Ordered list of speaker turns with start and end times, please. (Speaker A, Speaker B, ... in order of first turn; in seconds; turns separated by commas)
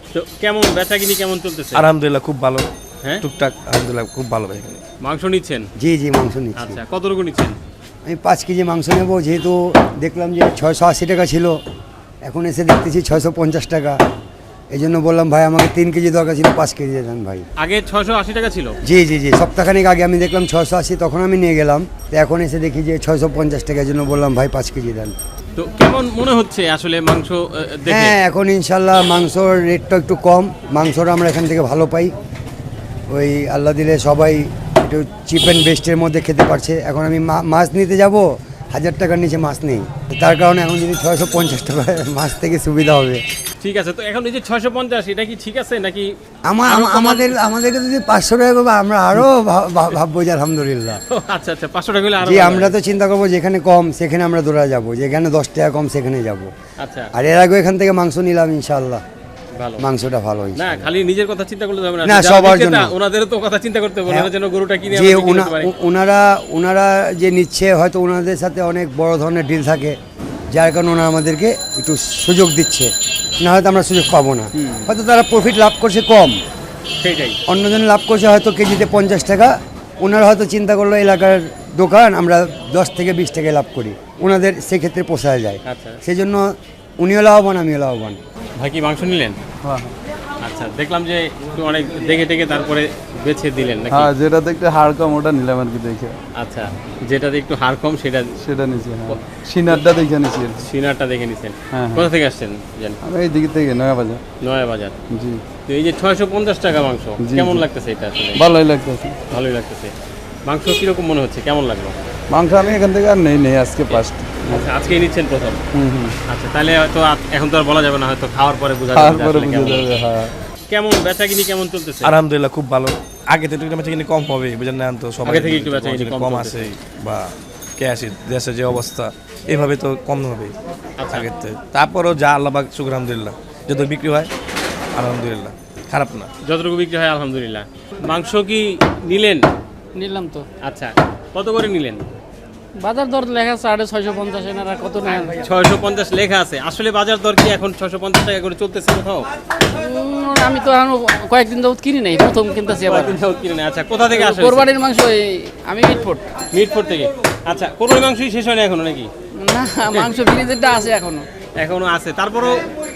Speaker A: 0.1-1.9, Speaker B: 1.7-2.7, Speaker B: 3.2-4.8, Speaker A: 5.0-5.7, Speaker C: 5.8-6.8, Speaker A: 6.6-7.6, Speaker C: 8.1-11.6, Speaker C: 12.2-14.0, Speaker C: 14.7-17.5, Speaker A: 17.6-18.8, Speaker C: 18.9-25.1, Speaker A: 25.6-28.1, Speaker C: 27.9-32.1, Speaker C: 33.1-43.2, Speaker A: 43.6-46.1, Speaker C: 46.5-51.0, Speaker A: 46.7-47.3, Speaker A: 51.1-52.8, Speaker C: 52.2-56.5, Speaker A: 56.8-57.1, Speaker C: 57.1-59.0, Speaker A: 59.6-59.8, Speaker C: 59.8-60.9, Speaker A: 60.6-65.7, Speaker C: 62.0-62.9, Speaker C: 64.9-70.0, Speaker C: 70.5-76.4, Speaker A: 74.6-74.9, Speaker A: 77.0-77.4, Speaker C: 77.5-88.2, Speaker A: 85.7-86.0, Speaker A: 88.6-89.4, Speaker D: 89.6-89.9, Speaker A: 90.4-94.1, Speaker D: 93.9-96.2, Speaker A: 96.4-98.3, Speaker D: 98.4-100.6, Speaker A: 99.1-99.9, Speaker A: 100.6-103.0, Speaker D: 101.7-102.1, Speaker D: 103.0-104.2, Speaker A: 104.4-104.9, Speaker D: 105.1-105.4, Speaker A: 105.7-108.4, Speaker D: 107.2-107.7, Speaker D: 108.4-109.2, Speaker A: 109.3-109.9, Speaker A: 110.5-112.0, Speaker D: 112.3-114.7, Speaker A: 113.9-115.6, Speaker D: 115.7-116.2, Speaker A: 116.3-119.9, Speaker D: 118.9-120.3, Speaker A: 120.7-122.2, Speaker B: 122.0-130.5, Speaker A: 125.3-126.7, Speaker A: 131.0-131.3, Speaker B: 131.1-134.3, Speaker B: 134.9-136.3, Speaker A: 136.5-139.4, Speaker E: 140.0-140.5, Speaker A: 140.6-142.0, Speaker E: 142.8-145.4, Speaker A: 145.4-149.3, Speaker E: 149.8-153.2, Speaker A: 152.9-154.7, Speaker E: 154.1-156.3, Speaker A: 156.5-159.1, Speaker E: 159.4-161.3, Speaker A: 161.6-162.7